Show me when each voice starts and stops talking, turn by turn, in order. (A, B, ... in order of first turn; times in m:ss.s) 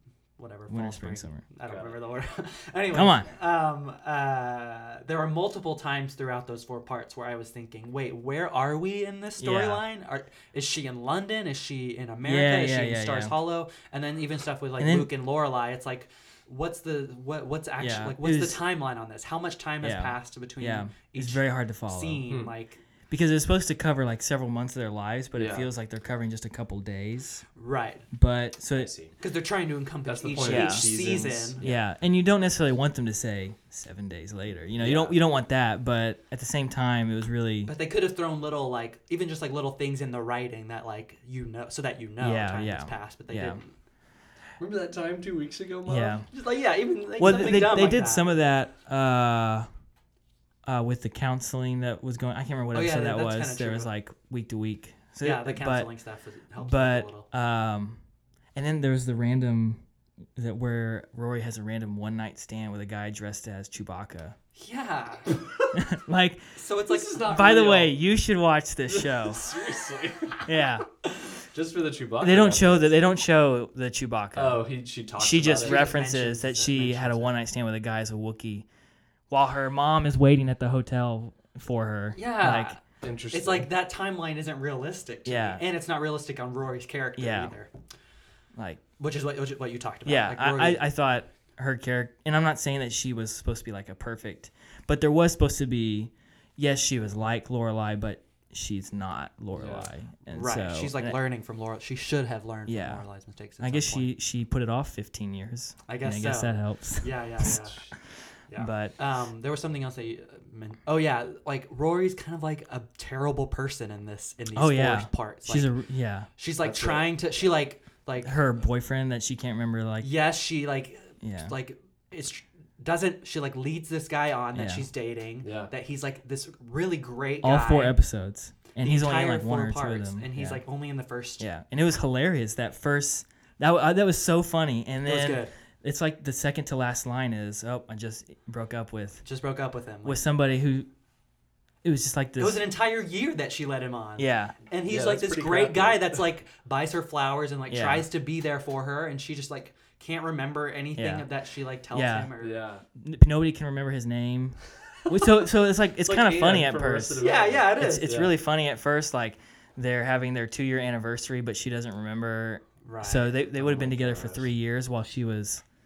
0:00.4-0:22.8 A
0:00.7-0:01.4 B
0:01.7-0:02.0 C
0:02.9-0:03.3 B
0:09.4-0:09.8 B
0:12.2-0:13.3 B
0:14.8-0:15.1 B
0:17.8-0:18.6 B
0:19.8-0:22.2 B
0:23.1-0:27.4 B
0:25.4-0:25.7 C
0:27.6-0:28.0 A
0:28.1-0:28.9 B
0:28.8-0:29.2 C
0:29.2-0:31.6 A
0:30.0-0:31.8 C
0:30.4-0:31.0 B
0:31.6-0:37.7 B
0:34.8-0:35.2 C
0:37.7-0:43.7 A
0:42.2-0:43.6 B
0:44.6-0:46.2 C
0:45.9-0:46.3 B
0:46.3-0:48.3 A
0:47.2-0:49.7 B
0:50.7-0:55.9 B
0:52.7-0:53.9 A
0:55.2-0:57.3 A
0:56.6-0:58.0 B
0:58.6-0:59.8 B
1:00.4-1:04.4 B
1:04.6-1:05.4 A
1:05.7-1:06.5 B
1:06.6-1:07.4 A
1:06.8-1:08.0 C
1:07.2-1:09.4 B
1:08.9-1:10.4 C
1:10.5-1:10.9 B
1:11.4-1:13.1 C
1:12.2-1:14.6 B
1:14.4-1:15.9 C
1:15.2-1:18.7 B
1:15.6-1:17.3 A
1:19.3-1:22.7 B
1:22.1-1:27.7 A
1:23.0-1:23.7 C
1:25.3-1:25.6 B
1:27.2-1:27.5 B
1:28.6-1:28.8 B
1:29.0-1:30.9 A
1:30.1-1:41.2 B
1:39.5-1:39.9 C
1:40.3-1:44.1 A
1:42.7-1:43.0 B
1:43.6-1:48.0 B
1:45.9-1:47.9 A
1:47.4-1:47.8 C
1:48.5-1:55.7 A
1:48.5-1:48.9 B
1:54.5-1:56.3 B
1:56.4-1:58.3 A
1:56.6-1:57.5 C
1:58.2-2:00.1 B
2:00.0-2:08.0 A
2:01.2-2:01.5 B
2:04.5-2:04.9 B
2:05.4-2:05.7 C
2:07.4-2:10.6 B
2:08.8-2:11.5 A
2:11.4-2:19.3 B
2:15.0-2:15.5 A
2:19.2-2:20.2 A
2:20.0-2:20.9 B
2:21.8-2:22.6 B
2:22.4-2:32.6 A
2:24.2-2:24.6 B
2:24.8-2:26.2 C
2:27.7-2:28.1 B
2:31.0-2:31.3 B
2:31.9-2:32.3 B
2:32.4-2:32.8 C
2:33.0-2:37.2 B
2:36.0-2:38.3 C
2:37.2-2:38.1 A
2:37.8-2:45.6 B
2:42.8-2:43.4 A
2:43.6-2:44.5 C